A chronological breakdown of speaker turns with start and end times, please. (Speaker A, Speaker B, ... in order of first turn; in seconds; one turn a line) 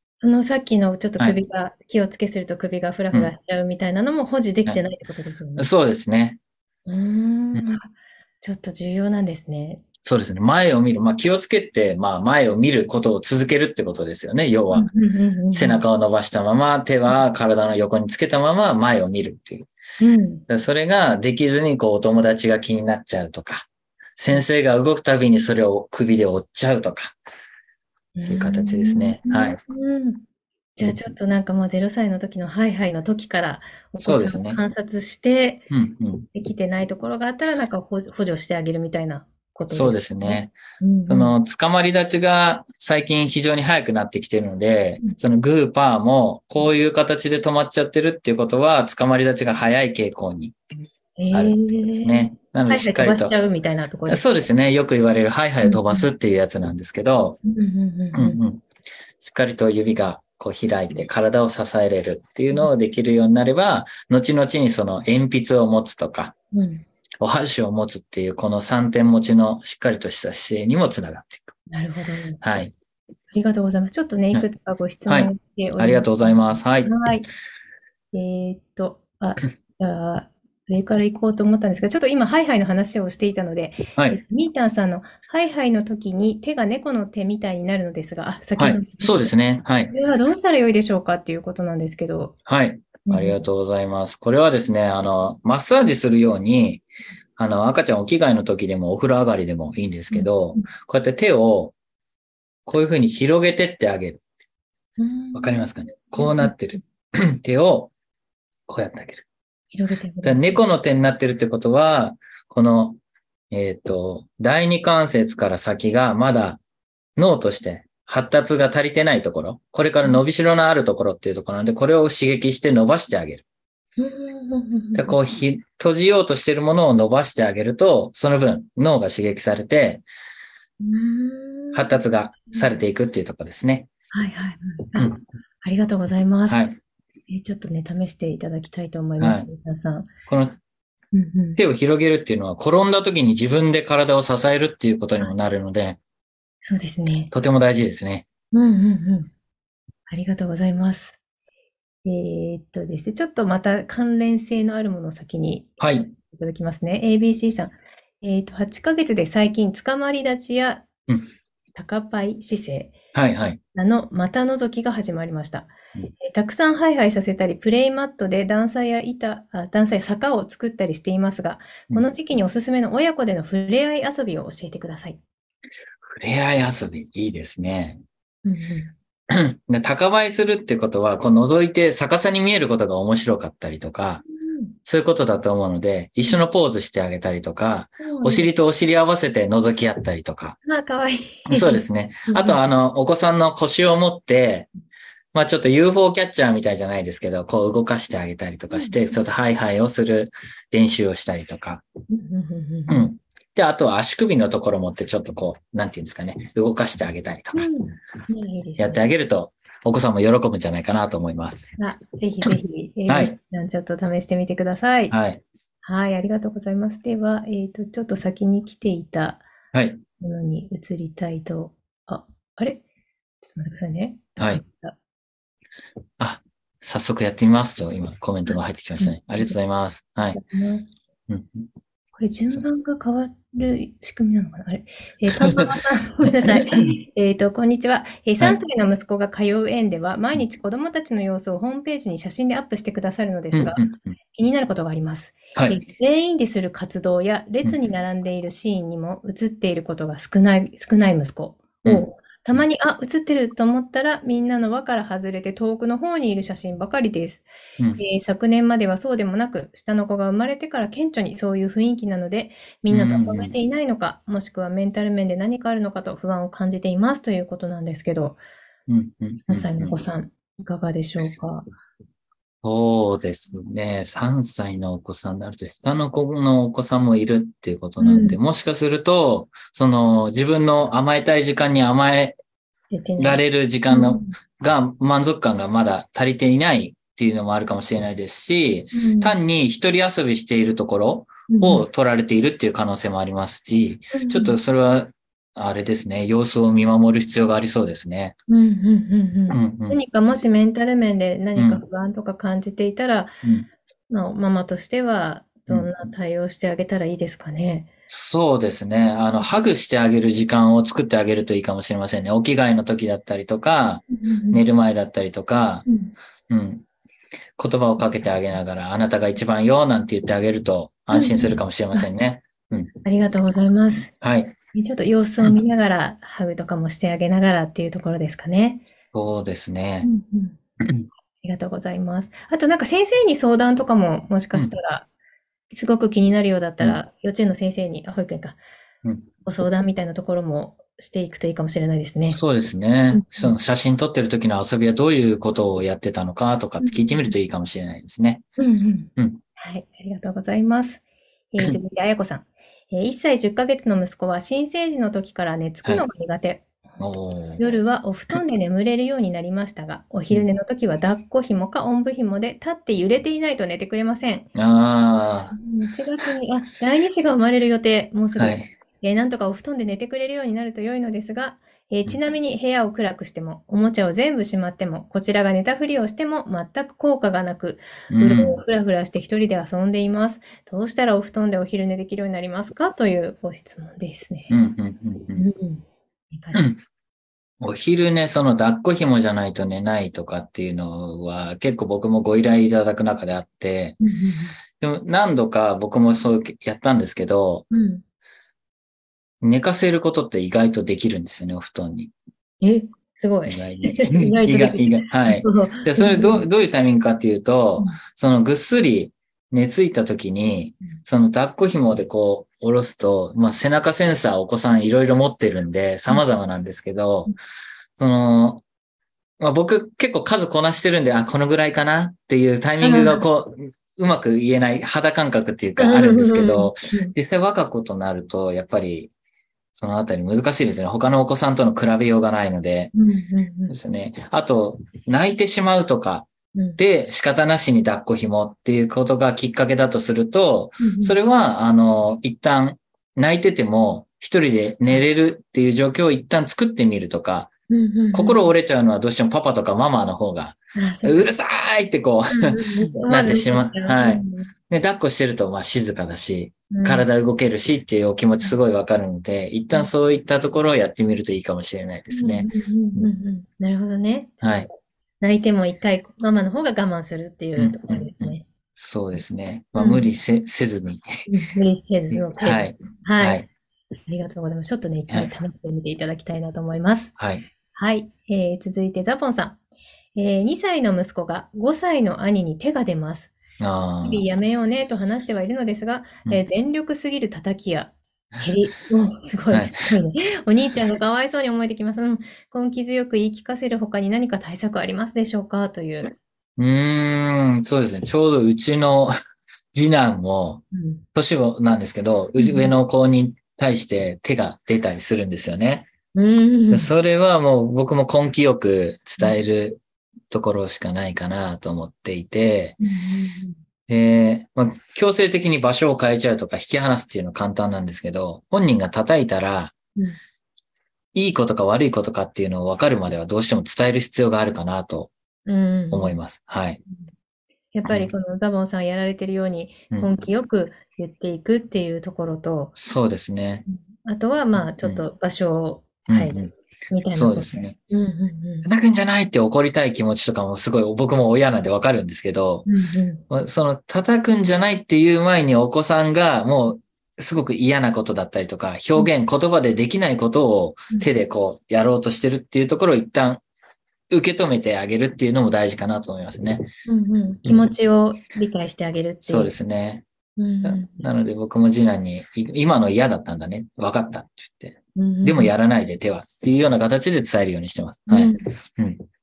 Speaker A: 0.2-5.7
Speaker B: 5.6-6.4
Speaker A: 6.9-9.8
Speaker B: 10.0-14.9
Speaker A: 14.7-15.8
Speaker B: 15.5-19.7
Speaker A: 20.0-20.4
Speaker B: 20.5-27.1
Speaker A: 28.1-30.2
Speaker B: 28.2-29.6
Speaker A: 30.8-35.7
Speaker B: 34.0-34.6
Speaker B: 35.7-36.3
Speaker A: 36.3-41.3
Speaker B: 39.7-40.5
Speaker B: 41.1-50.6
Speaker A: 51.2-54.2
Speaker B: 51.3-53.3
Speaker B: 54.1-57.4
Speaker A: 55.6-56.1
Speaker A: 57.4-58.4
Speaker B: 58.1-58.6
Speaker B: 59.2-66.3
Speaker A: 66.5-66.8
Speaker B: 67.2-71.5
Speaker A: 71.7-72.4
Speaker B: 72.4-72.7
Speaker A: 73.3-77.3
Speaker B: 75.1-76.9
Speaker A: 78.1-89.3
Speaker B: 88.6-89.9
Speaker A: 89.9-92.3
Speaker B: 92.5-96.8
Speaker A: 93.0-93.4
Speaker B: 97.4-101.7
Speaker A: 100.1-100.7
Speaker B: 102.7-104.2
Speaker A: 105.0-106.5
Speaker B: 105.3-107.9
Speaker B: 108.7-109.2
Speaker A: 109.7-110.6
Speaker B: 110.2-113.0
Speaker B: 113.5-116.6
Speaker B: 117.2-123.4
Speaker A: 124.0-125.2
Speaker B: 124.9-130.0
Speaker A: 130.8-132.0
Speaker B: 131.7-133.9
Speaker A: 134.1-136.6
Speaker B: 134.9-135.2
Speaker B: 136.5-136.8
Speaker A: 137.3-140.1
Speaker B: 139.2-139.5
Speaker B: 140.3-140.6
Speaker A: 141.1-141.6
Speaker B: 141.6-146.0
Speaker A: 145.2-145.4
Speaker A: 146.6-147.3
Speaker B: 147.3-148.2
Speaker A: 148.5-149.3
Speaker A: 150.1-151.2
Speaker A: 152.1-160.9
Speaker B: 155.8-156.1
Speaker A: 161.8-163.0
Speaker B: 163.1-163.6
Speaker A: 163.7-175.2
Speaker B: 176.0-178.0
Speaker A: 178.4-178.9
Speaker B: 179.3-184.2
Speaker A: 184.3-184.8
Speaker B: 184.8-190.6
Speaker A: 188.0-188.5
Speaker A: 190.6-192.6
Speaker B: 191.5-194.7
Speaker B: 195.3-201.8
Speaker A: 198.7-199.0
Speaker A: 202.1-203.1
Speaker B: 202.9-207.7
Speaker A: 207.5-209.0
Speaker B: 208.8-211.7
Speaker A: 211.8-215.2
Speaker B: 213.1-213.3
Speaker B: 215.1-215.4
Speaker A: 215.8-219.4
Speaker B: 219.7-220.0
Speaker A: 220.2-222.8
Speaker A: 223.4-224.9
Speaker B: 226.2-230.4
Speaker A: 228.5-229.5
Speaker A: 230.3-230.9
Speaker B: 231.3-231.7
Speaker A: 232.2-268.4
Speaker B: 236.4-236.9
Speaker B: 243.5-244.2
Speaker B: 245.6-245.8
Speaker B: 251.8-252.6
Speaker B: 262.9-263.5
Speaker B: 268.9-270.0
Speaker A: 269.5-271.7
Speaker B: 272.6-282.4
Speaker A: 278.0-278.4
Speaker A: 282.9-284.3
Speaker B: 283.2-298.4
Speaker A: 288.9-289.4
Speaker A: 291.5-291.8
Speaker A: 294.1-294.6
Speaker A: 298.5-303.3
Speaker B: 299.5-300.0
Speaker B: 301.6-301.8
Speaker A: 304.1-307.9
Speaker B: 308.1-315.9
Speaker A: 314.1-314.6
Speaker A: 315.9-316.1
Speaker B: 316.5-316.8
Speaker B: 317.6-322.9
Speaker A: 321.1-322.1
Speaker A: 323.1-324.1
Speaker B: 324.2-324.6
Speaker A: 324.7-328.9
Speaker B: 329.1-330.1
Speaker A: 330.0-330.6
Speaker B: 330.8-331.1
Speaker A: 331.4-335.1
Speaker A: 335.7-338.6
Speaker A: 339.4-342.4
Speaker B: 342.3-348.4
Speaker A: 343.1-343.6
Speaker A: 346.8-347.3
Speaker A: 348.6-351.0
Speaker A: 351.5-357.0
Speaker B: 357.0-357.6
Speaker A: 357.6-364.5
Speaker B: 364.6-365.5
Speaker A: 365.5-384.6
Speaker B: 368.4-368.7
Speaker B: 378.1-378.6
Speaker B: 384.5-385.4
Speaker A: 385.4-386.7
Speaker B: 387.6-394.0
Speaker A: 394.0-394.6
Speaker B: 394.8-397.7
Speaker A: 397.7-398.0
Speaker B: 399.4-402.1
Speaker A: 402.6-406.4
Speaker B: 403.5-417.3
Speaker B: 418.0-418.6
Speaker B: 419.4-429.1
Speaker A: 422.8-423.2
Speaker A: 425.8-427.1
Speaker B: 429.7-432.9
Speaker A: 432.9-433.7
Speaker B: 433.7-447.5
Speaker A: 436.5-436.8
Speaker A: 440.8-441.2
Speaker A: 447.7-448.5
Speaker B: 448.1-463.1
Speaker A: 450.7-451.3
Speaker A: 452.3-454.5
Speaker A: 456.7-457.1
Speaker A: 462.1-468.4
Speaker B: 464.4-464.7
Speaker B: 467.6-471.1
Speaker A: 469.8-470.1
Speaker A: 471.3-473.4
Speaker B: 472.1-473.4
Speaker A: 474.1-477.1
Speaker B: 477.2-477.4
Speaker A: 477.7-479.6
Speaker A: 480.1-483.4
Speaker B: 483.6-484.2
Speaker A: 484.0-496.1
Speaker B: 489.5-489.9
Speaker B: 496.6-499.2
Speaker B: 499.7-500.6
Speaker A: 500.7-501.0
Speaker B: 501.1-505.9
Speaker A: 502.4-502.7
Speaker A: 506.1-506.9
Speaker B: 506.7-512.8
Speaker A: 512.8-513.6
Speaker B: 513.9-519.7
Speaker B: 521.1-525.1
Speaker A: 525.5-526.2
Speaker B: 525.9-526.8
Speaker A: 527.7-532.7
Speaker B: 527.9-528.1
Speaker B: 532.8-533.6
Speaker A: 533.7-536.4
Speaker B: 536.1-536.5
Speaker A: 536.9-538.7
Speaker B: 537.1-537.8
Speaker B: 538.6-542.6
Speaker A: 542.6-543.2
Speaker B: 543.3-553.4
Speaker B: 554.1-556.7
Speaker A: 556.9-559.5
Speaker B: 559.2-560.0
Speaker A: 560.4-561.0
Speaker B: 560.6-569.0
Speaker A: 565.0-565.5
Speaker A: 568.1-568.5